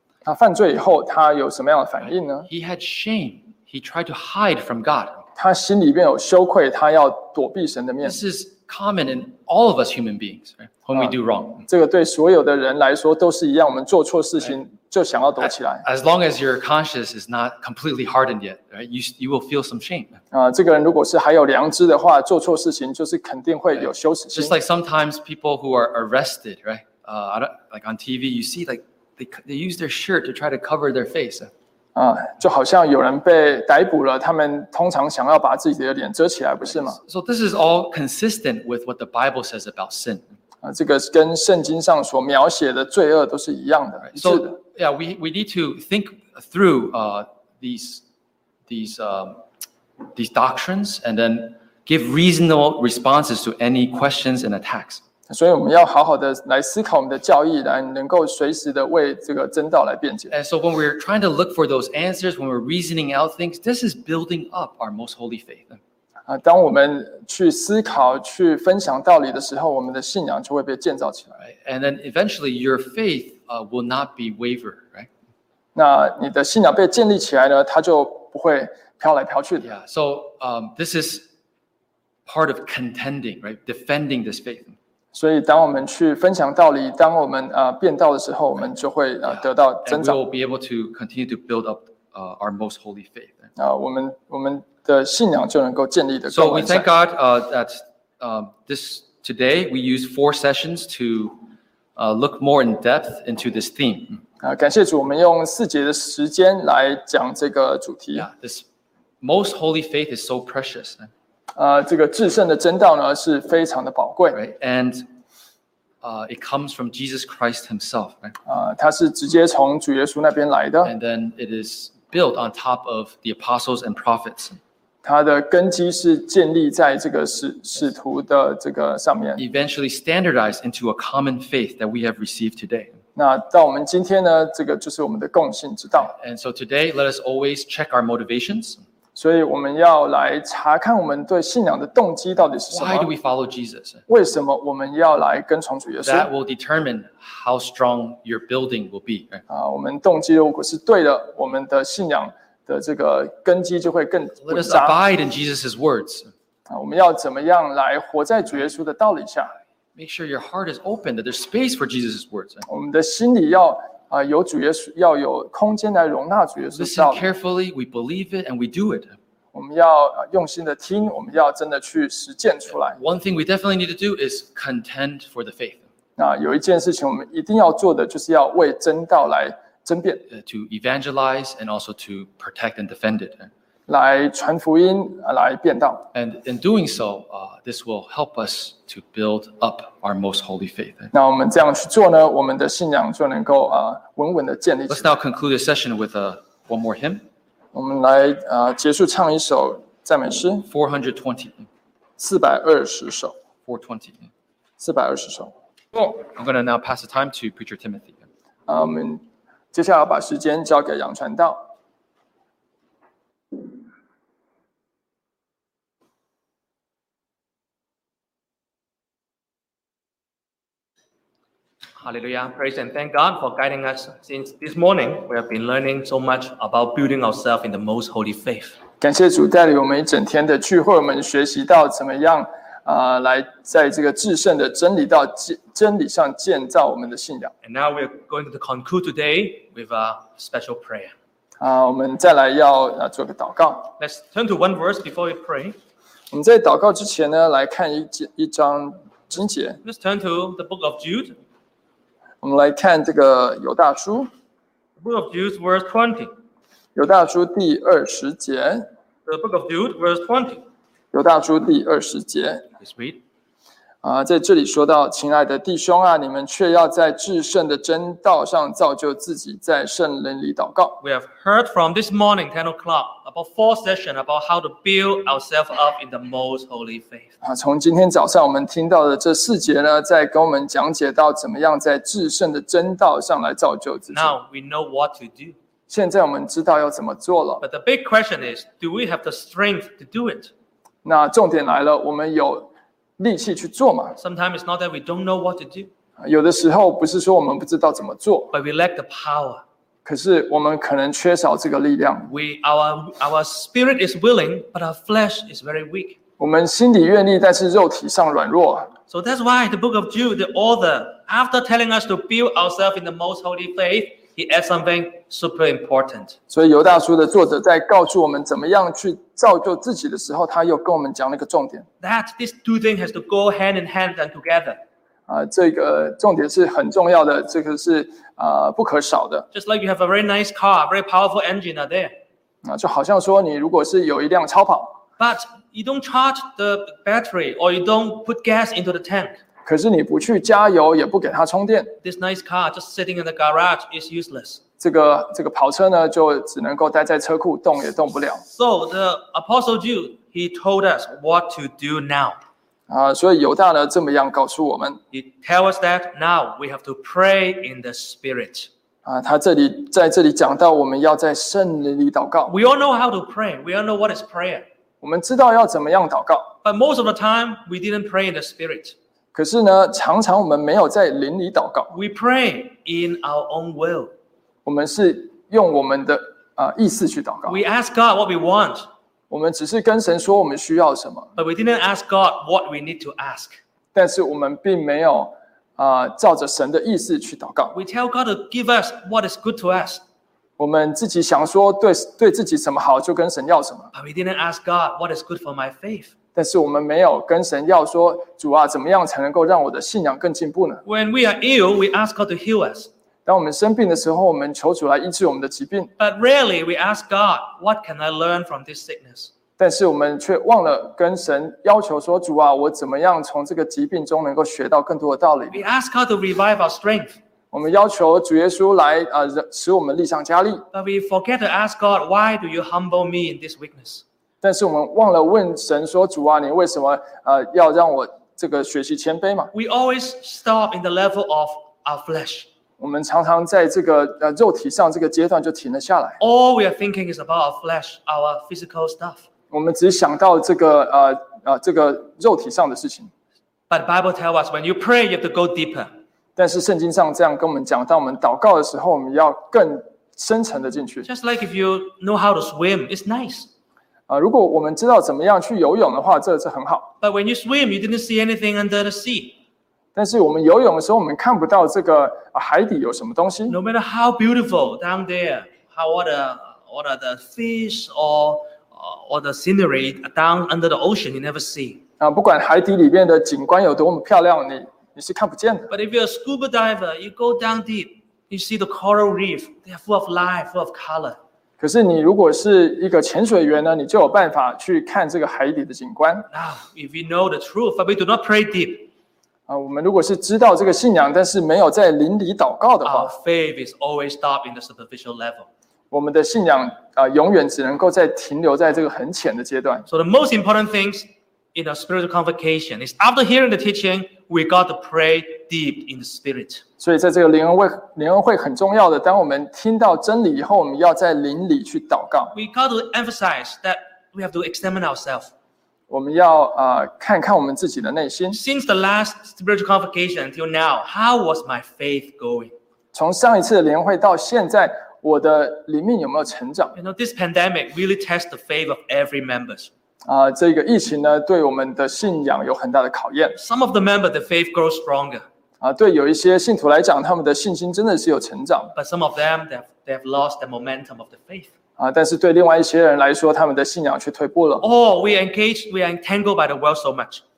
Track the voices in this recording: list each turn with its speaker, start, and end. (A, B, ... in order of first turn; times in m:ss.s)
0:00.2-0:02.5 A
0:02.5-0:05.2 B
0:05.4-0:08.2 A
0:08.0-0:11.7 B
0:11.7-0:15.8 A
0:15.4-0:20.2 B
0:20.3-0:24.6 A
0:24.3-0:31.5 B
0:31.9-0:37.0 A
0:37.0-0:40.2 B
0:40.6-0:44.6 A
0:44.1-0:48.0 B
0:48.7-0:49.4 B
0:50.1-0:55.0 B
0:55.3-1:00.3 A
1:00.3-1:05.8 B
1:06.3-1:11.4 A
1:11.4-1:15.1 B
1:15.7-1:19.7 A
1:19.6-1:21.3 B
1:22.2-1:24.8 B
1:25.1-1:30.2 A
1:29.8-1:33.5 B
1:33.6-1:36.9 A
1:36.3-1:41.4 B
1:42.0-1:44.2 B
1:44.4-1:48.3 A
1:48.1-1:48.6 B
1:49.2-1:51.1 B
1:51.6-1:54.4 A
1:54.3-1:55.1 B
1:56.0-1:58.3 B
1:58.4-2:00.9 A
2:00.8-2:04.6 B
2:05.0-2:09.4 A
2:09.4-2:12.9 B
2:13.2-2:16.1 A
2:16.0-2:18.8 B
2:19.1-2:23.1 A
2:22.7-2:24.0 B
2:24.1-2:26.3 A
2:26.0-2:29.4 B
2:29.5-2:35.0 A
2:34.4-2:36.3 B
2:36.7-2:39.5 A
2:40.0-2:42.6 B
2:42.7-2:47.3 A
2:46.7-2:49.1 B
2:49.5-2:53.0 A
2:52.9-2:55.8 B
2:56.2-3:00.2 A
3:00.3-3:03.5 B
3:03.9-3:06.1 A
3:06.1-3:11.1 B
3:11.1-3:15.1 A
3:14.9-3:17.2 B
3:17.7-3:20.7 A
3:20.7-3:21.7 B
3:22.2-3:23.3 A
3:23.6-3:24.3 B
3:24.8-3:26.1 A
3:26.1-3:28.2 B
3:28.7-3:31.7 A
3:42.0-3:48.8 C
3:49.0-3:57.5 A
3:57.6-4:01.1 C
4:01.6-4:03.9 A
4:04.0-4:05.8 C
4:06.3-4:09.8 A
4:09.8-4:11.4 C
4:12.4-4:14.3 A
4:15.0-4:16.3 C
4:16.9-4:18.9 A
4:19.2-4:20.6 C
4:21.1-4:22.6 A
4:22.8-4:23.2 C
4:24.0-4:31.0 A
4:31.0-4:37.3 C
4:37.4-4:44.4 A
4:44.1-4:45.6 C
4:45.9-4:47.6 A
4:47.6-4:50.5 C
4:51.0-4:54.2 A
4:54.2-4:55.9 C
4:56.2-4:58.5 A
4:58.5-4:59.6 C
5:00.0-5:02.3 A
5:02.3-5:06.2 C
5:06.4-5:08.9 A
5:09.1-5:16.4 C
5:16.5-5:21.8 A
5:22.0-5:24.8 C
5:25.3-5:29.5 A
5:29.5-5:32.1 C
5:32.6-5:35.0 A
5:35.2-5:39.4 C
5:39.6-5:41.9 A
5:42.0-5:44.6 C
5:44.8-5:48.4 A
5:48.4-5:52.4 C
5:52.9-5:55.0 A
5:55.1-5:58.7 C
5:59.0-6:02.5 A
6:02.5-6:04.6 C
6:05.0-6:06.5 A
6:06.6-6:08.9 C
6:09.3-6:11.9 A
6:11.9-6:14.1 C
6:14.6-6:17.6 A
6:17.4-6:18.9 C
6:19.3-6:21.3 A
6:21.4-6:23.6 C
6:23.9-6:27.8 A
6:27.7-6:30.0 C
6:30.6-6:33.9 A
6:33.9-6:36.1 C
6:36.4-6:40.8 A
6:40.8-6:42.9 C
6:43.2-6:45.9 A
6:46.0-6:49.3 C
6:49.6-6:55.6 A
6:55.5-6:57.2 C
6:57.5-7:00.6 A
7:00.7-7:04.0 C
7:04.4-7:09.5 A
7:09.5-7:12.5 C
7:12.8-7:16.2 A
7:16.2-7:19.2 C
7:19.5-7:23.1 A
7:23.7-7:25.9 C
7:26.4-7:31.1 A
7:31.0-7:33.5 C
7:34.1-7:36.9 A
7:37.0-7:39.4 C
7:39.9-7:43.6 A
7:43.5-7:51.8 C
7:52.0-7:55.7 A
7:55.7-8:01.2 C
8:01.6-8:06.3 A
8:06.3-8:08.9 C
8:09.5-8:13.1 A
8:12.8-8:15.5 C
8:15.9-8:19.9 A
8:19.9-8:26.6 C
8:26.8-8:32.3 A
8:32.3-8:35.3 C
8:35.9-8:38.4 A
8:38.3-8:42.5 C
8:42.9-8:46.8 A
8:46.8-8:49.7 C
8:50.0-8:53.4 A
8:53.4-8:55.2 C
8:55.6-8:58.7 A
8:58.8-9:01.5 C
9:01.8-9:04.6 A
9:04.6-9:07.2 C